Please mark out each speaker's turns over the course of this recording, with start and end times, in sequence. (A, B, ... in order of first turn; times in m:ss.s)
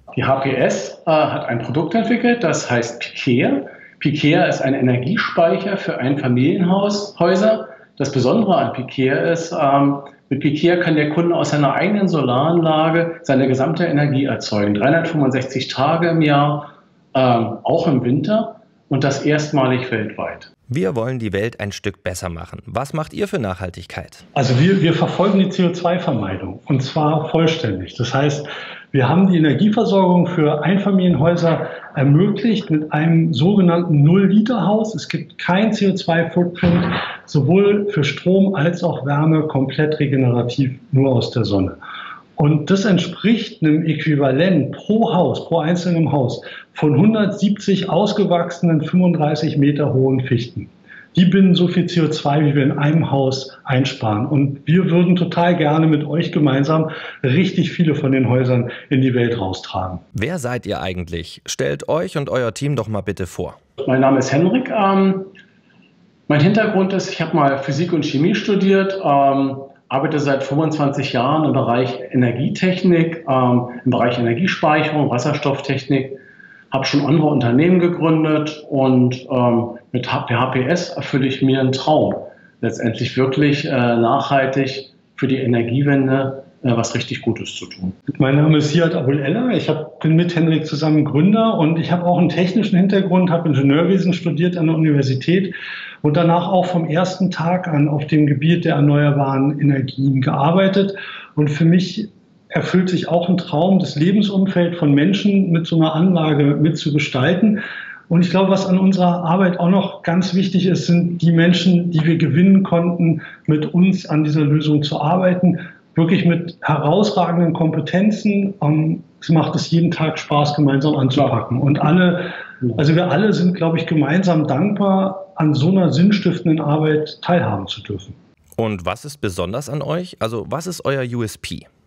0:00.1-0:20.5 A
0:20.7-0:24.2 B
0:24.3-0:41.8 C
0:42.4-1:00.0 C
1:00.1-1:03.6 B
1:03.8-1:05.3 A
1:06.3-1:16.2 A
1:16.7-1:28.0 A
1:28.2-2:08.1 C
2:08.6-2:11.6 B